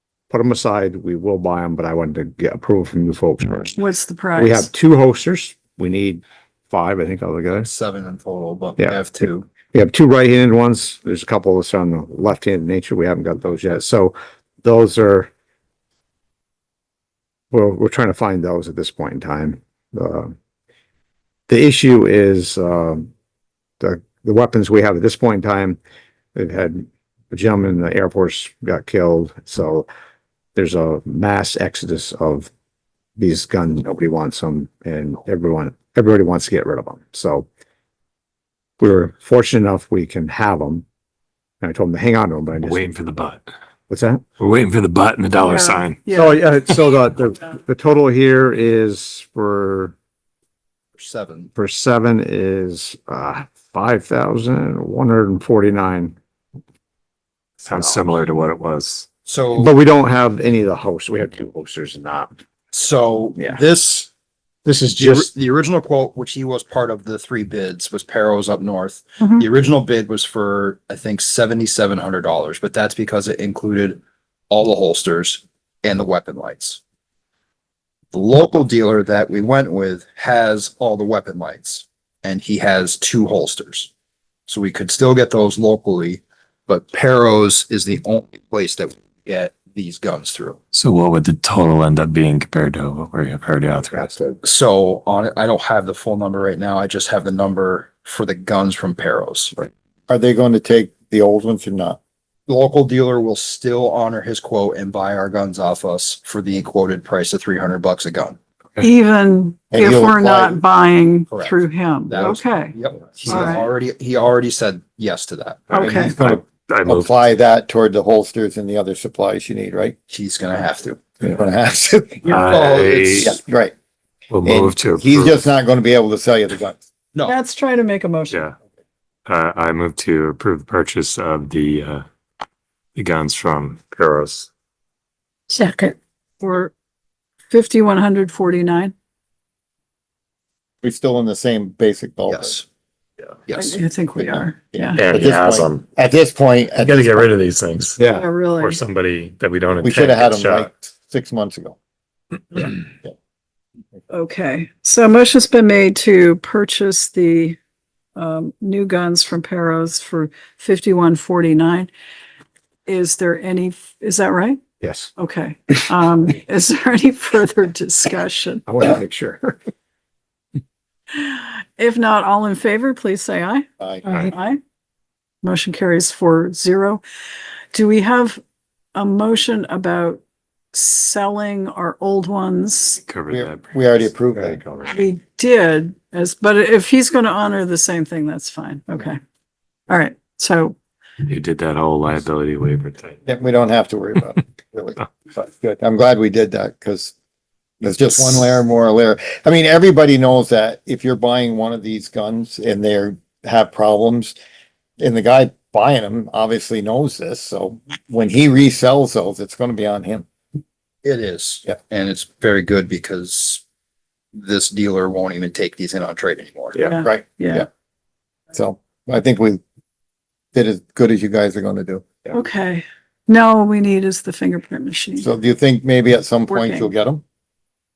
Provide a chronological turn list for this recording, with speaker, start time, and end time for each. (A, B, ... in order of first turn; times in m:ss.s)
0:00.3-0:03.8 A
0:03.8-0:04.7 B
0:04.3-0:07.7 A
0:07.6-0:09.5 C
0:08.8-0:15.3 A
0:17.5-0:20.3 A
0:21.5-0:23.1 A
0:23.8-0:25.8 A
0:26.3-0:29.9 A
0:30.6-0:32.5 A
0:33.2-0:37.5 A
0:38.8-0:40.8 A
0:41.6-0:43.0 A
0:42.6-0:43.4 D
0:43.9-0:44.2 A
0:44.4-0:46.0 D
0:45.4-0:46.4 B
0:46.1-0:49.9 A
0:51.0-0:51.5 C
0:51.5-0:56.1 A
0:57.6-0:58.1 A
0:57.6-0:59.1 D
0:59.2-0:59.7 C
0:59.6-1:02.3 A
1:02.7-1:04.1 C
1:04.6-1:05.3 A
1:05.0-1:16.8 C
1:18.1-1:23.9 C
1:24.5-1:30.6 C
1:30.7-1:34.1 D
1:33.9-1:34.4 A
1:34.4-1:39.6 C
1:40.1-1:42.0 E
1:42.5-1:48.4 C
1:48.8-1:53.6 B
1:49.7-1:50.6 E
1:51.3-1:56.2 C
1:55.7-1:56.1 B
1:55.8-1:57.1 D
1:56.2-1:59.9 E
2:00.1-2:01.0 C
2:01.2-2:02.3 E
2:02.2-2:03.4 C
2:02.3-2:03.4 D
2:03.2-2:03.7 E
2:04.3-2:05.4 D
2:04.4-2:06.8 E
2:07.2-2:08.4 B
2:08.3-2:08.5 D
2:09.2-2:12.0 D
2:13.0-2:14.5 D
2:16.4-2:16.7 B
2:17.5-2:18.9 B
2:20.8-2:22.6 E
2:22.3-2:22.6 C
2:23.5-2:23.8 C
2:23.5-2:25.0 B
2:24.2-2:27.3 E
2:25.0-2:25.8 D
2:26.8-2:30.7 D
2:28.0-2:28.2 A
2:28.1-2:28.8 B
2:29.8-2:31.8 E
2:32.6-2:33.1 E
2:34.1-2:37.6 B
2:38.2-2:41.9 B
2:42.8-2:44.6 B
2:44.8-2:45.1 A
2:45.2-2:48.6 B
2:48.7-2:49.6 A
2:51.1-2:54.6 B
2:53.8-2:54.0 E
2:55.4-2:57.0 B
2:57.7-2:58.4 B
2:58.9-3:00.2 B
3:00.7-3:03.0 B
3:03.1-3:03.6 D
3:03.3-3:04.6 E
3:04.3-3:04.9 A
3:04.9-3:09.2 B
3:09.9-3:10.7 B
3:11.2-3:13.2 D
3:13.2-3:17.1 E
3:17.8-3:24.4 E
3:25.0-3:30.2 E
3:31.0-3:33.6 C
3:34.3-3:36.8 C
3:36.8-3:37.6 B
3:37.0-3:37.7 E
3:38.5-3:39.6 E
3:40.5-3:42.1 E
3:42.3-3:45.2 B
3:45.2-3:47.2 E
3:46.5-3:46.9 B